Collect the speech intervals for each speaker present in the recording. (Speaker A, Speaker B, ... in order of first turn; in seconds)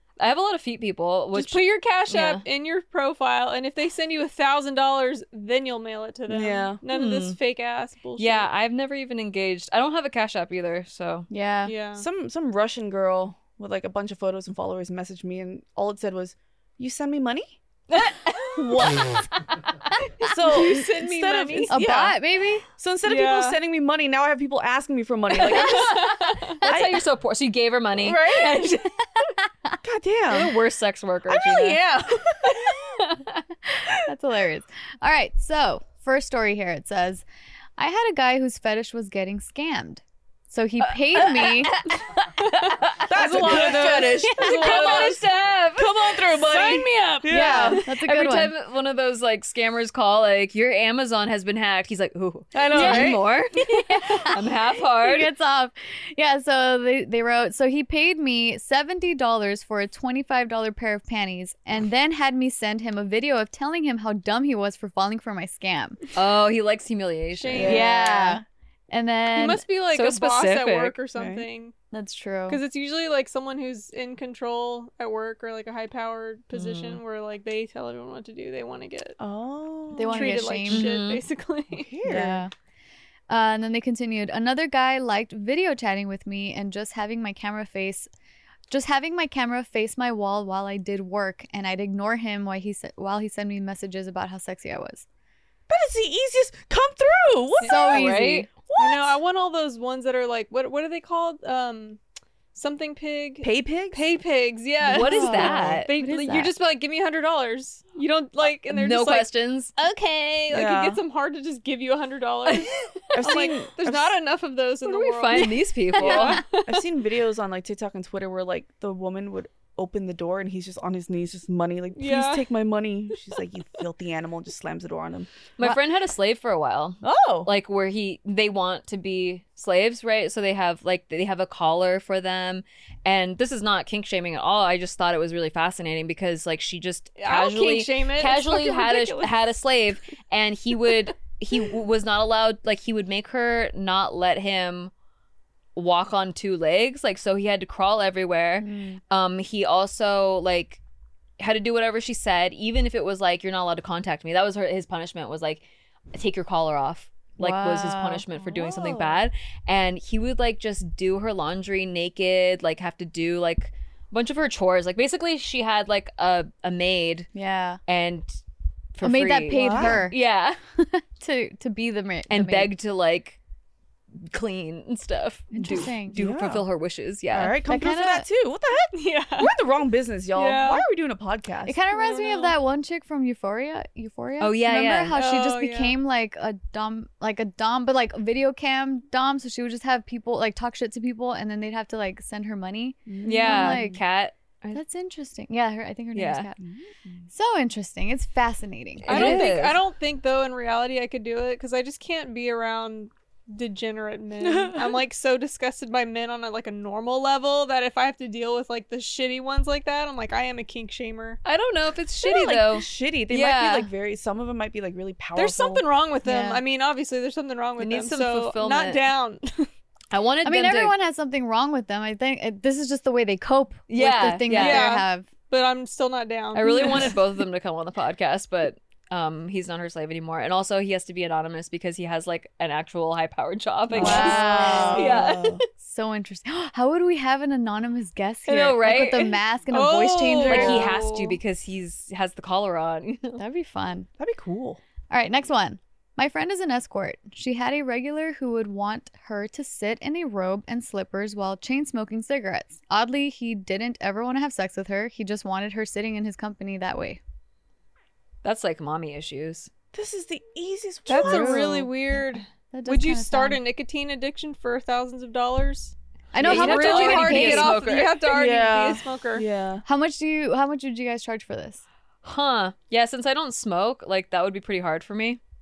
Speaker A: 0.2-2.4, 6.9-7.4, 8.2-11.3, 18.8-19.1, 25.5-28.8, 30.3-31.8, 32.4-33.4, 41.3-55.3, 66.2-67.8, 69.9-71.0, 76.5-77.0, 80.7-81.2, 97.7-98.5, 104.8-106.2, 108.7-109.8, 112.5-113.3, 114.8-116.7, 125.6-144.9, 145.8-150.8, 151.4-155.6, 156.1-167.3, 167.9-168.4, 168.9-170.6, 172.3-173.4, 174.2-177.6, 184.4-185.2, 193.2-194.8, 196.1-196.5, 199.1-199.8, 211.4-213.9, 217.8-219.1, 220.1-220.9, 223.9-224.9, 226.5-235.6, 238.5-239.4, 240.4-243.4, 258.4-259.7, 266.4-268.2, 272.2-275.4
Speaker B: 1.3-8.5, 11.7-12.1, 18.0-18.5, 20.4-21.8, 23.0-23.6, 25.5-26.6, 28.0-28.9, 31.3-32.8, 43.2-45.2, 46.5-47.3, 67.3-68.4, 69.3-71.7, 72.5-79.2, 80.1-82.0, 98.8-102.0, 102.5-116.5, 122.0-122.5, 137.2-139.2, 178.9-179.5, 180.3-180.8, 181.9-182.6, 185.1-186.0, 199.1-211.4, 215.4-219.7, 224.5-227.2, 233.9-235.2, 239.7-241.4, 261.1-269.5
Speaker C: 6.3-6.8, 12.0-17.6, 18.6-19.3, 20.2-22.2, 22.8-26.1, 26.6-27.0, 29.8-30.6, 43.1-47.8, 52.5-53.2, 67.5-67.9, 71.2-71.5, 79.2-80.4, 81.8-82.4, 95.7-99.2, 103.4-104.0, 110.5-111.0, 113.1-114.2, 116.2-125.3, 127.0-127.5, 138.4-139.3, 158.5-159.1, 169.6-170.0, 176.1-176.6, 177.3-181.8, 193.1-193.8, 196.6-197.2, 204.4-205.1, 212.2-215.9, 233.9-235.6, 240.5-240.9, 244.2-244.8, 259.9-261.9, 268.2-269.8
Speaker D: 11.3-11.7, 21.7-22.6, 33.8-37.2, 37.8-41.8, 47.3-48.5, 52.7-54.4, 55.0-66.0, 67.6-69.6, 71.9-72.6, 79.9-80.9, 82.0-82.5, 83.3-88.1, 88.7-95.0, 97.6-98.5, 105.0-106.5, 148.6-149.0, 157.4-158.4, 167.3-167.8, 169.0-170.2, 170.8-172.7, 175.5-176.2, 177.7-178.3, 181.7-194.0, 194.7-196.6, 197.3-199.5, 216.2-216.6, 220.4-225.3, 234.0-235.1, 235.7-240.8, 243.4-244.1, 245.1-257.2, 261.2-261.8, 262.3-263.6, 266.3-267.8, 269.9-271.8